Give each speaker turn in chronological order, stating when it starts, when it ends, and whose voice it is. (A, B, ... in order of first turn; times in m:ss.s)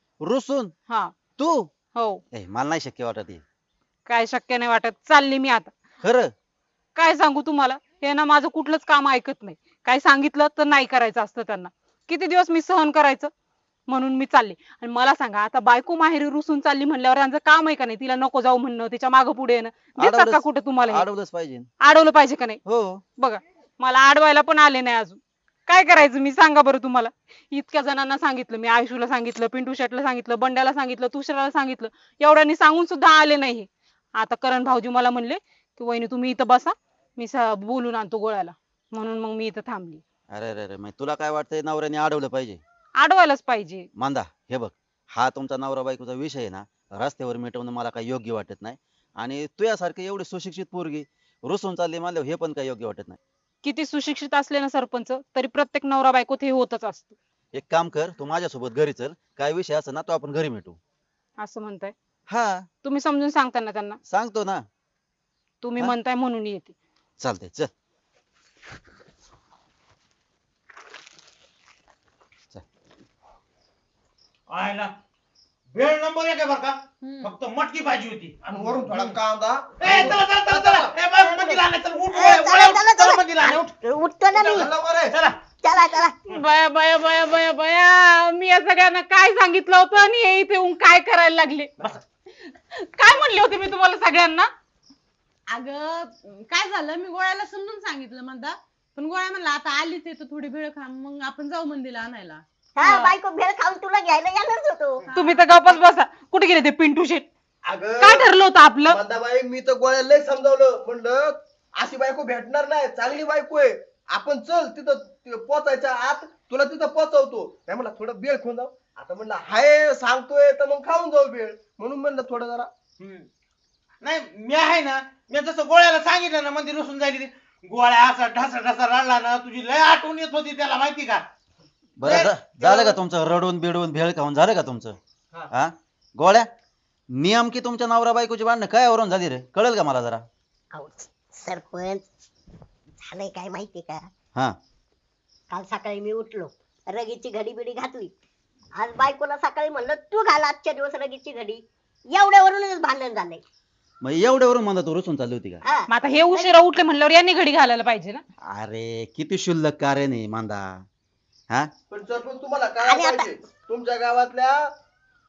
0:00.2-0:00.7 A
0:01.4-0:01.7 A
0:01.9-0:02.2 B
0:02.3-0:03.4 A
0:04.0-0:05.7 B
0:06.0-0:06.3 A
0:07.0-0:13.3 B
0:13.9-0:21.0 B
0:20.0-0:21.7 A
0:21.8-0:22.6 B
0:22.6-0:23.0 A
0:23.2-0:40.0 B
0:40.3-0:42.6 A
0:43.0-0:43.9 B
0:44.0-0:53.2 A
0:53.6-0:57.2 B
0:57.5-1:00.8 A
1:01.4-1:01.9 B
1:02.3-1:02.6 A
1:02.8-1:04.0 B
1:04.1-1:04.6 A
1:05.6-1:06.7 B
1:07.2-1:07.7 A
1:14.5-1:14.9 C
1:15.7-1:19.1 C
1:17.0-1:17.4 D
1:18.5-1:20.2 E
1:19.8-1:23.7 C
1:20.6-1:24.7 F
1:24.3-1:25.4 C
1:24.6-1:25.1 E
1:25.6-1:26.1 F
1:26.3-1:31.7 B
1:32.5-1:34.5 B
1:35.5-1:43.2 D
1:42.8-1:45.0 F
1:45.0-1:45.4 D
1:45.1-1:47.3 B
1:47.6-1:48.3 E
1:48.0-1:49.0 B
1:48.8-2:02.7 E
2:03.0-2:03.3 C
2:04.0-2:11.3 C
2:12.0-2:15.0 A
2:12.0-2:13.0 C
2:15.5-2:16.5 A
2:17.1-2:20.2 A
2:20.7-2:22.1 F
2:23.0-2:24.1 F
2:25.5-2:28.1 F
2:28.7-2:33.4 F
2:34.0-2:35.6 A
2:35.6-2:36.5 F
2:35.9-2:38.2 B
2:38.5-2:40.8 A
2:41.9-2:44.7 E
2:42.8-2:43.3 F